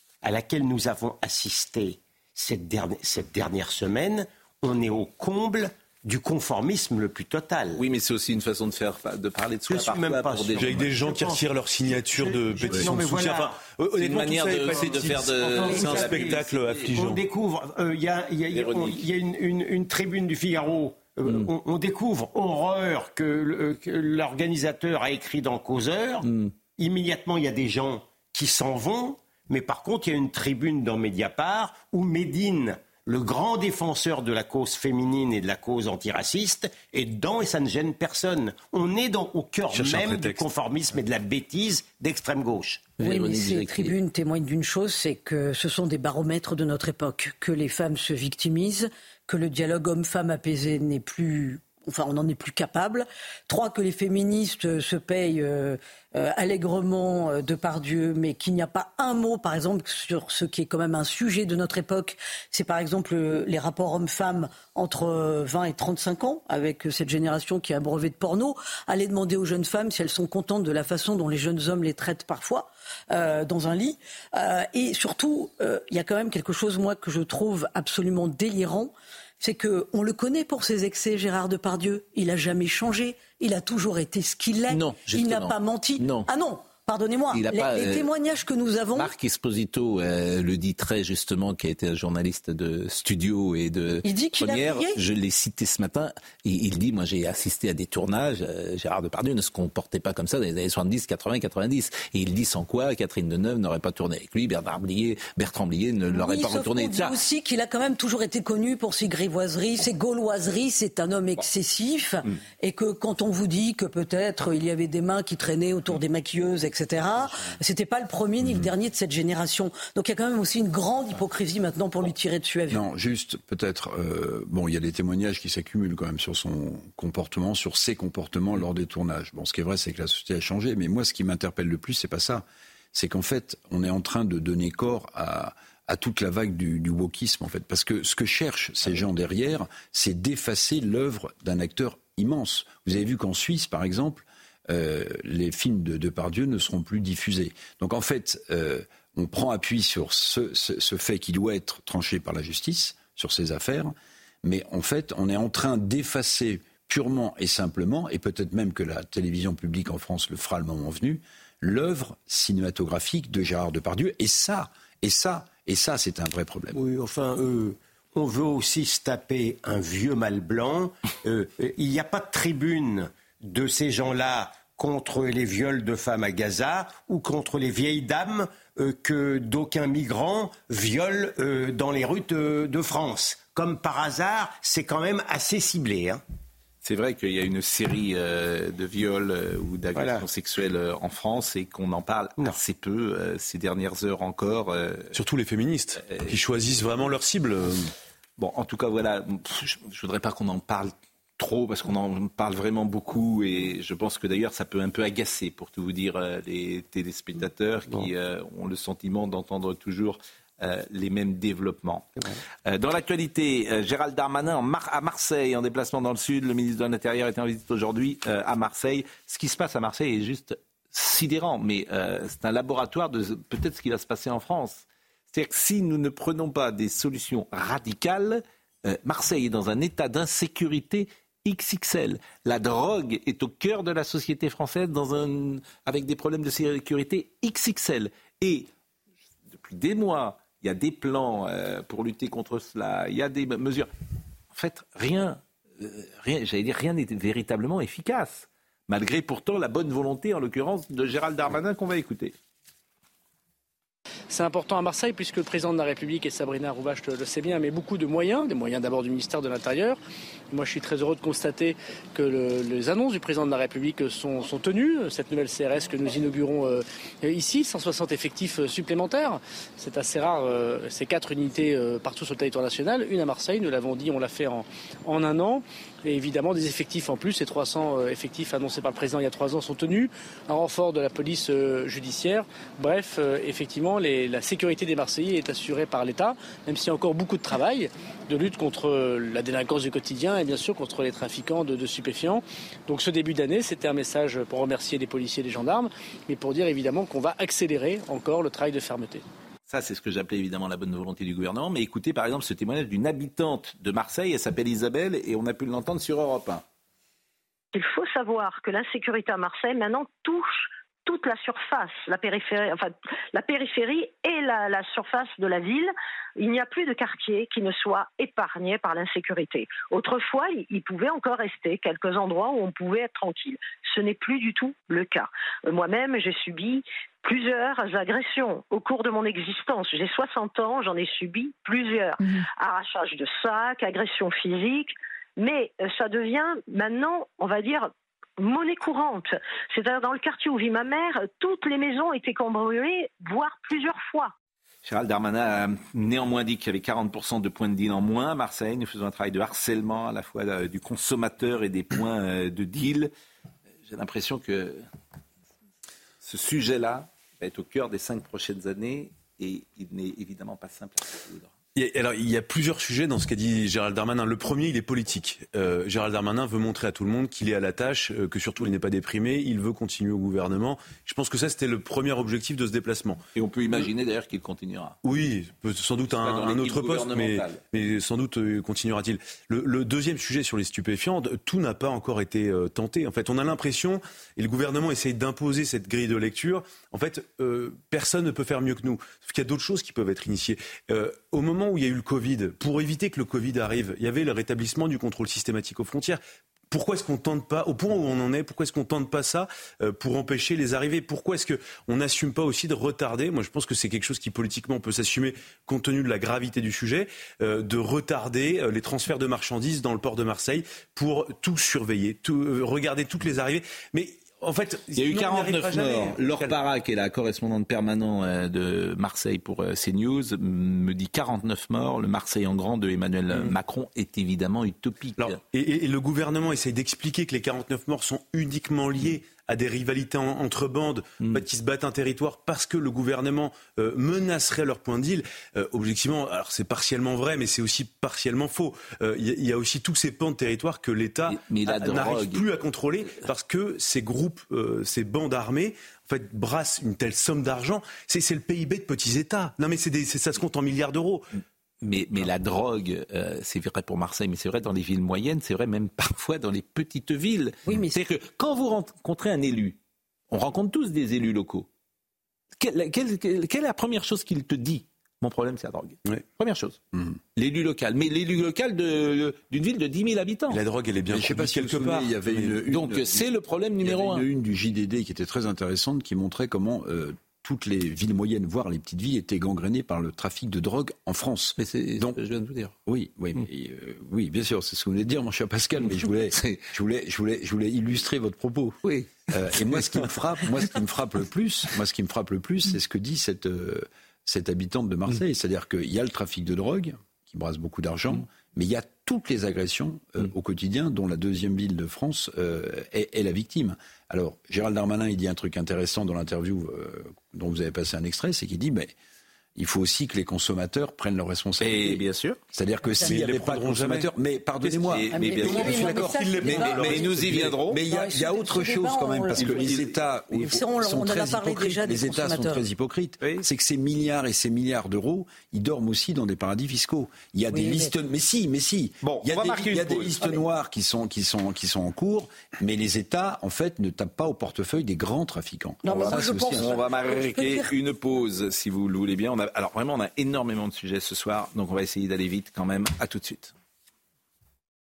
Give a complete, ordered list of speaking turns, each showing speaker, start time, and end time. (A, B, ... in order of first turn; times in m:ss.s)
0:00.2-0:07.8 A
0:07.8-0:10.9 B
0:09.7-0:13.6 A
0:10.6-0:17.2 C
0:14.0-0:16.9 B
0:14.7-0:43.0 A
0:18.5-0:19.1 B
0:26.2-0:26.5 B
0:39.7-0:40.4 C
0:43.0-0:44.0 B
0:43.0-1:29.1 D
1:24.7-1:26.3 B
1:27.3-1:28.1 B
1:28.9-1:47.2 B
1:34.0-1:35.0 D
1:46.1-2:02.8 D
2:02.7-2:46.8 E
2:46.7-3:06.2 A
3:06.8-3:15.1 B
3:10.0-3:10.2 A
3:15.1-3:17.9 C
3:16.0-3:16.4 B
3:18.4-3:32.1 B
3:32.7-3:58.7 B
3:59.5-4:03.9 B
4:04.5-4:12.3 B
4:14.3-4:20.0 F
4:20.5-4:59.2 F
4:59.7-5:06.6 B
5:07.7-5:44.3 G
5:44.8-5:53.1 B
5:53.9-5:54.8 B
5:56.2-6:01.5 B
6:01.8-6:13.2 C
6:13.4-6:15.0 B
6:15.0-6:56.6 C
6:16.2-6:17.6 B
6:55.0-7:05.4 B
7:05.2-7:31.2 C
7:21.3-7:22.4 B
7:31.8-7:39.8 B
7:37.6-7:38.0 D
7:40.3-7:41.7 B
7:42.6-7:46.8 B
7:47.4-7:50.6 B
7:50.5-7:52.6 C
7:51.1-7:53.3 E
7:52.7-7:54.3 B
7:53.8-8:02.2 E
8:01.6-8:02.7 B
8:02.9-8:29.0 E
8:06.3-8:06.6 B
8:08.8-8:10.1 B
8:29.6-8:32.0 E
8:31.6-8:32.4 B
8:32.5-8:56.7 E
8:33.0-8:34.1 C
8:34.6-8:37.5 C
8:34.7-8:37.8 B
8:35.0-8:37.3 D
8:37.8-8:39.8 D
8:39.4-8:39.9 B
8:40.4-8:42.7 D
8:47.5-8:47.9 D
8:49.0-8:50.4 B
8:55.8-8:57.7 D
8:55.9-9:03.5 B